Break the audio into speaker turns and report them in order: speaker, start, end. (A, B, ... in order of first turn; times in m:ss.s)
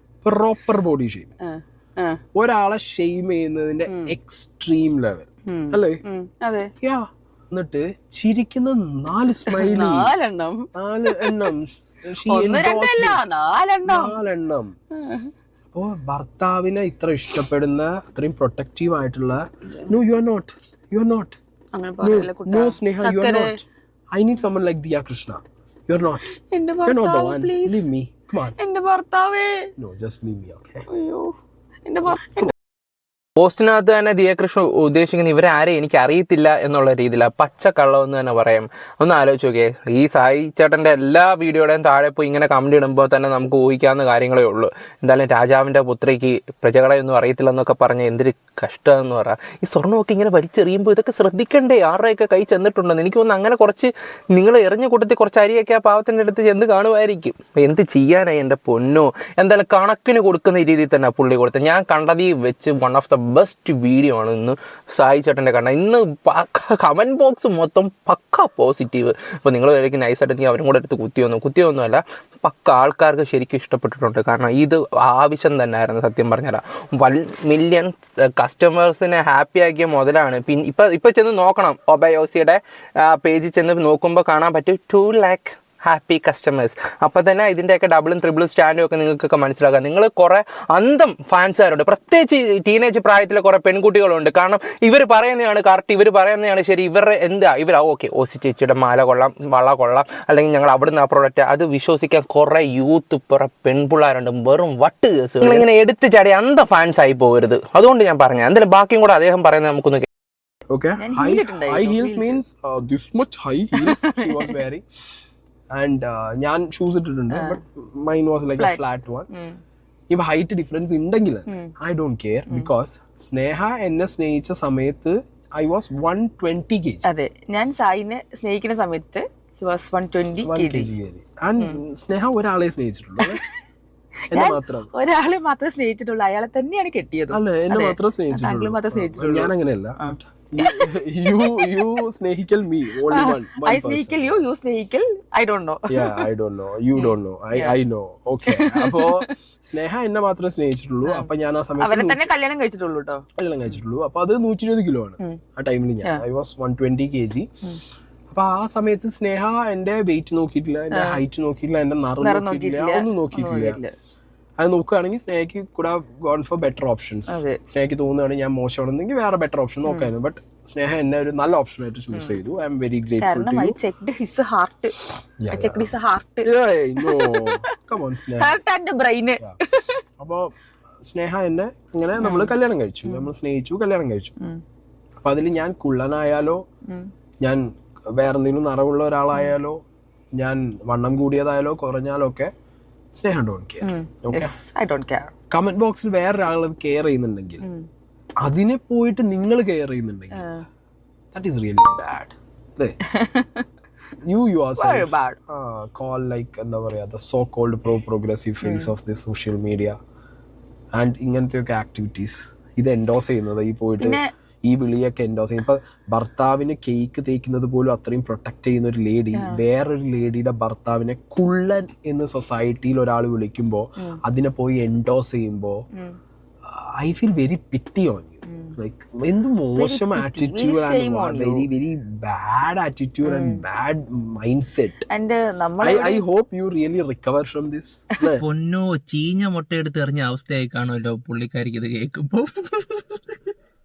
0:00.2-0:01.3 A
0:01.4-0:02.2 B
0:02.3-0:06.0 A
0:05.5-0:06.7 B
0:06.8-0:10.1 A
0:09.5-0:11.5 B
0:10.7-0:13.2 A
0:12.2-0:14.2 B
0:13.8-0:14.7 A
0:15.0-0:15.3 B
0:15.7-0:21.4 A
0:21.7-0:23.6 B
0:22.0-0:26.2 A
0:26.5-0:27.8 B
0:26.8-0:28.6 A
0:28.6-0:29.7 B
0:29.8-0:30.8 A
0:30.9-0:31.3 B
0:31.8-0:32.5 B
0:32.0-0:32.5 A
0:33.4-1:50.0 C
1:50.7-1:54.8 A
1:51.0-1:52.4 B
1:53.8-1:54.5 B
1:55.7-1:59.3 A
1:57.3-1:57.6 B
1:59.3-1:59.6 B
2:00.1-2:07.0 A
2:07.0-2:10.9 B
2:10.4-2:13.4 A
2:14.3-2:14.9 A
2:14.3-2:20.9 B
2:17.3-2:24.5 A
2:21.4-2:21.8 B
2:23.1-2:26.2 B
2:25.9-2:32.2 A
2:26.9-2:27.8 B
2:28.5-2:29.3 B
2:31.8-2:33.2 B
2:33.4-2:37.5 A
2:38.3-2:43.8 A
2:40.9-2:41.2 B
2:42.2-2:43.9 B
2:44.6-2:53.7 A
2:47.3-2:47.6 B
2:53.2-2:55.0 B
2:55.4-2:55.8 A
2:55.5-2:56.5 B
2:56.4-2:58.6 A
2:57.0-2:57.5 B
2:58.4-3:00.0 B
3:00.2-3:04.3 A
3:02.2-3:02.5 B
3:03.0-3:03.3 B
3:05.2-3:06.6 A
3:07.4-3:09.8 A
3:10.4-3:12.5 A
3:13.1-3:14.5 A
3:13.8-3:15.3 B
3:15.5-3:17.6 A
3:18.4-3:20.4 A
3:20.3-3:20.6 B
3:21.3-3:23.0 A
3:23.1-3:23.6 B
3:24.2-3:30.0 A
3:24.8-3:25.4 B
3:28.6-3:28.9 B
3:30.9-3:45.8 A
3:34.0-3:34.3 B
3:39.3-3:39.6 B
3:46.7-3:55.0 A
3:49.8-3:51.6 B
3:53.2-3:53.6 B
3:55.1-3:56.2 B
3:55.8-3:58.4 A
3:58.4-4:03.4 C